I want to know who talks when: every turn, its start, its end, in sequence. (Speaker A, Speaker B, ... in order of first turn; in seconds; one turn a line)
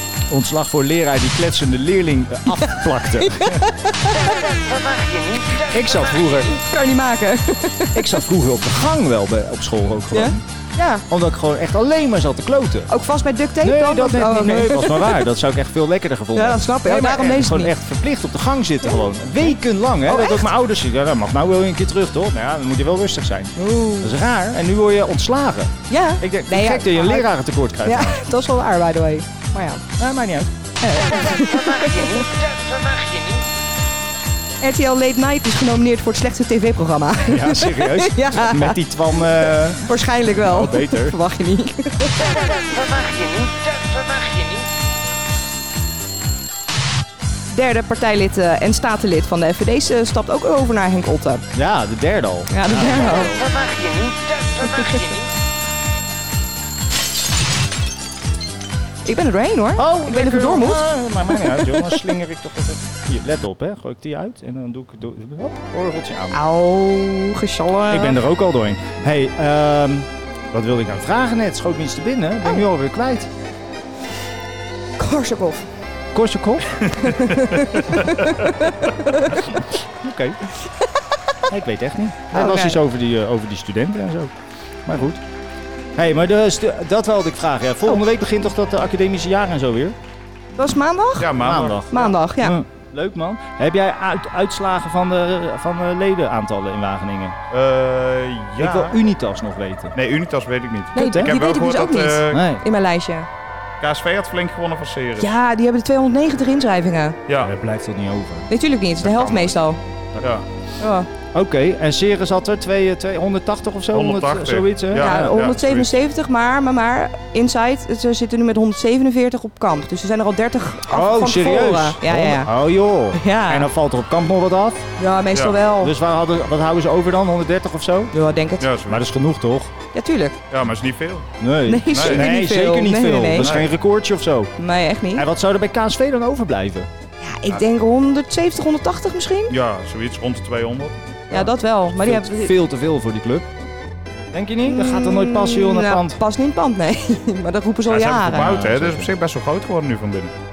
Speaker A: 0.3-3.7
Speaker B: 2.6-4.2
Speaker A: 5.7-6.6
Speaker B: 6.5-8.2
Speaker A: 7.9-10.4
Speaker B: 10.1-11.0
Speaker A: 11.1-12.9
Speaker B: 12.9-15.2
Speaker A: 13.6-28.2
Speaker B: 16.4-17.7
Speaker B: 20.1-20.5
Speaker B: 23.6-24.1
Speaker B: 25.9-29.8
Speaker A: 30.0-30.5
Speaker B: 30.8-32.3
Speaker B: 34.6-38.8
Speaker A: 37.3-41.2
Speaker B: 39.8-42.3
Speaker B: 47.5-51.5
Speaker A: 51.5-53.5
Speaker B: 52.5-53.4
Speaker B: 54.6-55.0
Speaker B: 59.0-60.9
Speaker A: 59.8-66.4
Speaker B: 61.4-62.0
Speaker B: 66.3-68.2
Speaker A: 67.9-73.3
Speaker B: 75.0-75.7
Speaker A: 76.1-76.9
Speaker B: 77.0-79.4
Speaker A: 79.8-80.4
Speaker A: 81.5-84.3
Speaker B: 82.3-82.8
Speaker A: 84.9-85.2
Speaker A: 86.0-90.0
Speaker B: 90.6-91.4
Speaker C: 91.2-92.0
Speaker A: 91.3-97.4
Speaker B: 91.9-92.6
Speaker C: 97.5-99.0
Speaker A: 98.6-100.0
Speaker C: 100.0-102.4
Speaker B: 101.0-103.3
Speaker A: 101.0-101.3
Speaker A: 102.3-102.6
Speaker C: 103.8-105.3
Speaker B: 105.2-107.2
Speaker A: 107.4-108.5
Speaker B: 108.5-109.8
Speaker C: 109.1-109.5
Speaker C: 110.2-110.5
Speaker B: 110.8-111.1
Speaker A: 111.3-115.5
Speaker C: 113.9-115.9
Speaker B: 114.9-122.5
Speaker A: 120.9-124.9
Speaker B: 123.1-123.7
Speaker B: 125.0-125.9
Speaker C: 125.3-125.6
Speaker A: 125.8-128.1
Speaker B: 128.1-128.7
Speaker C: 128.6-129.0
Speaker A: 128.9-129.7
Speaker B: 129.9-130.4
Speaker C: 130.5-131.3
Speaker A: 131.4-134.5
Speaker B: 131.7-133.5
Speaker C: 131.9-132.3
Speaker C: 133.4-133.7
Speaker B: 134.6-135.3
Speaker A: 135.1-136.9
Speaker B: 137.2-139.5
Speaker C: 139.5-141.2
Speaker B: 141.3-142.5
Speaker A: 141.3-143.5
Speaker A: 144.3-146.2
Speaker B: 144.7-148.5
Speaker C: 147.9-150.3
Speaker A: 148.3-149.1